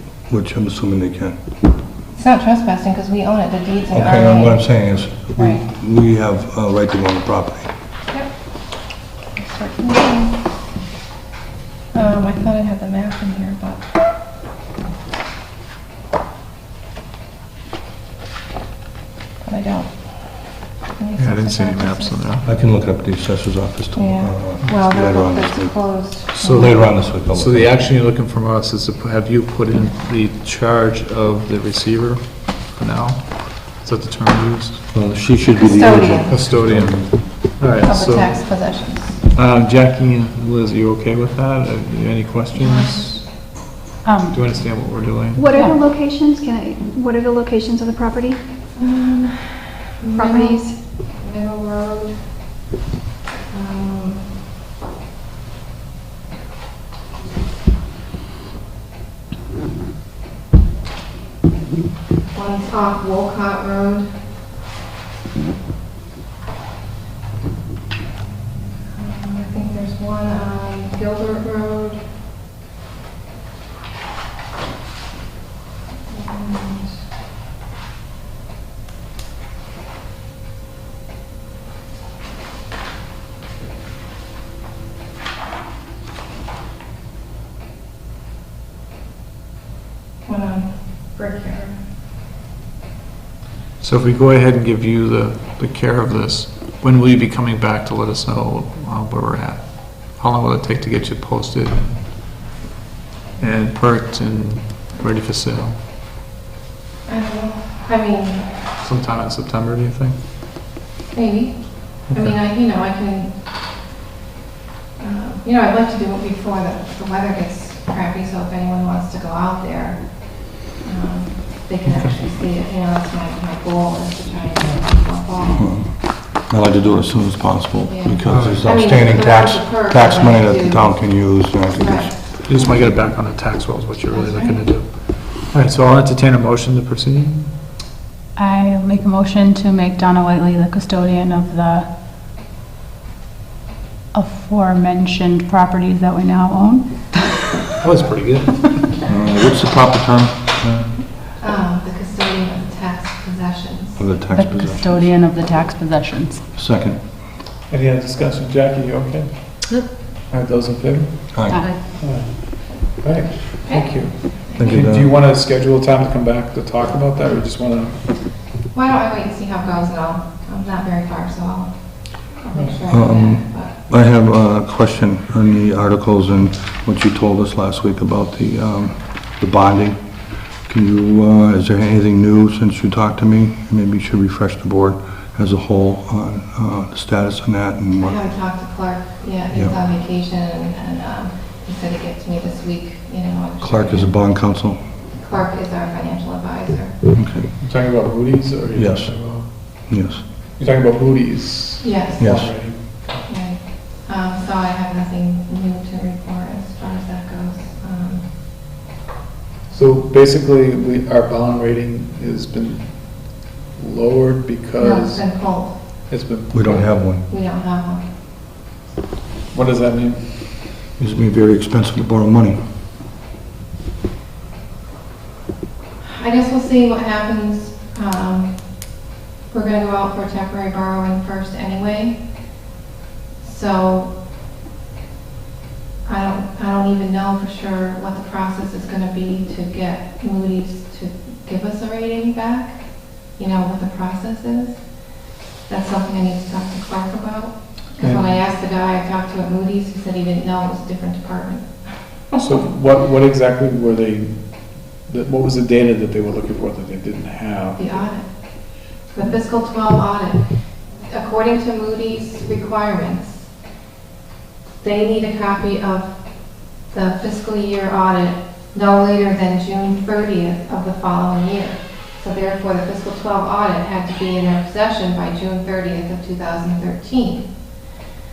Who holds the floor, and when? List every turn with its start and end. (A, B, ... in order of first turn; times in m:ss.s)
0:00.3-0:01.4 A
0:02.2-0:05.6 B
0:03.9-0:07.7 A
0:09.3-0:10.5 B
0:11.9-0:13.9 B
0:19.4-0:20.4 B
0:21.0-0:22.2 B
0:21.2-0:22.4 C
0:22.4-0:27.9 A
0:24.0-0:26.8 B
0:26.4-0:34.8 C
0:34.9-0:37.2 A
0:35.6-0:36.4 B
0:36.3-0:38.4 C
0:37.8-0:39.2 B
0:39.3-0:43.5 C
0:42.6-0:43.2 B
0:44.0-0:44.5 D
0:44.3-0:45.4 C
0:45.4-0:48.4 E
0:48.8-0:52.5 B
0:50.1-0:50.6 E
0:53.5-0:54.4 B
1:02.3-1:04.1 B
1:08.9-1:12.1 B
1:16.1-1:17.0 B
1:30.2-1:31.8 B
1:33.8-1:42.3 C
1:43.4-1:45.8 C
1:47.1-1:48.8 B
1:48.8-1:50.2 C
1:51.1-1:53.4 B
1:55.0-2:05.8 B
2:01.9-2:02.2 C
2:05.6-2:12.8 A
2:07.9-2:12.9 B
2:08.3-2:08.6 C
2:12.4-2:17.5 C
2:14.1-2:14.8 B
2:18.4-2:21.9 D
2:24.1-2:27.5 D
2:27.8-2:28.9 C
2:29.1-2:31.0 A
2:31.4-2:34.1 B
2:34.0-2:35.1 A
2:34.3-2:36.5 D
2:36.5-2:37.0 A
2:37.7-2:41.4 C
2:41.3-2:41.7 A
2:41.5-2:41.8 D
2:42.0-2:48.1 C
2:43.6-2:44.9 B
2:44.6-2:45.1 A
2:48.7-2:53.8 B
2:52.9-3:00.0 A
3:00.7-3:08.4 A
3:08.0-3:14.2 B
3:13.6-3:14.8 A
3:15.1-3:17.0 B
3:17.2-3:17.5 A
3:17.6-3:19.5 C
3:18.8-3:20.2 A
3:20.6-3:23.3 C
3:21.8-3:22.3 B
3:22.2-3:22.6 A
3:23.3-3:28.3 B
3:29.7-3:35.4 C
3:34.8-3:35.9 B
3:36.1-3:37.0 C
3:36.5-3:37.2 A
3:37.2-3:38.1 B
3:39.5-3:40.4 C
3:41.0-3:42.6 A
3:46.0-3:52.5 B
3:53.4-3:54.2 B
3:56.0-4:05.0 B
4:05.7-4:12.6 B
4:08.0-4:08.3 C
4:12.4-4:18.1 C
4:17.8-4:23.5 B
4:24.8-4:37.5 B